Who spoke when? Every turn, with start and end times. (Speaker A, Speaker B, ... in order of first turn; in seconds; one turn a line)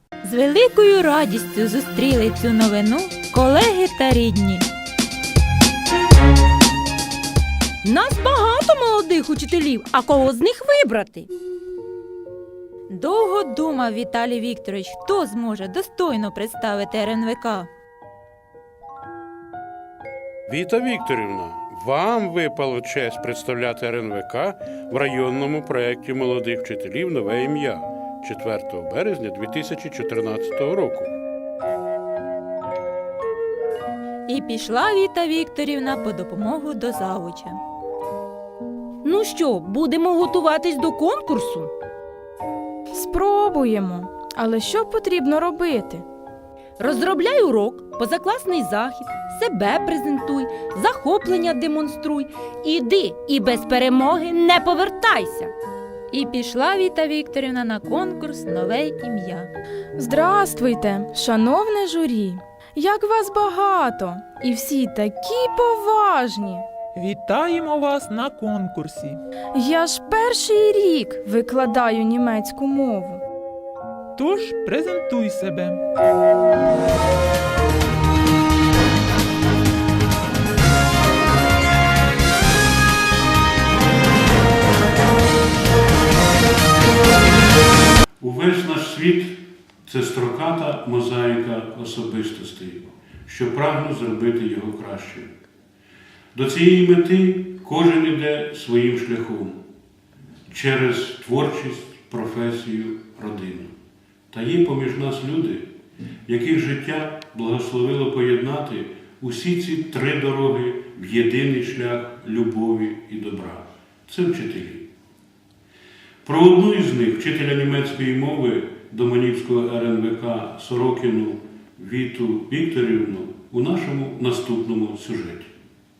Speaker A: 0.2-4.7
Speaker B: 7.8-11.3
Speaker A: 12.9-17.7
Speaker C: 20.5-31.1
Speaker A: 34.3-37.6
Speaker B: 39.0-41.7
Speaker D: 42.9-46.0
Speaker B: 46.8-55.5
Speaker A: 56.1-59.5
Speaker D: 60.0-66.7
Speaker E: 66.9-69.2
Speaker D: 69.5-73.2
Speaker E: 74.2-75.8
Speaker C: 88.2-95.3
Speaker C: 96.3-99.6
Speaker C: 100.5-103.7
Speaker C: 104.3-105.6
Speaker C: 106.3-114.8
Speaker C: 116.2-125.5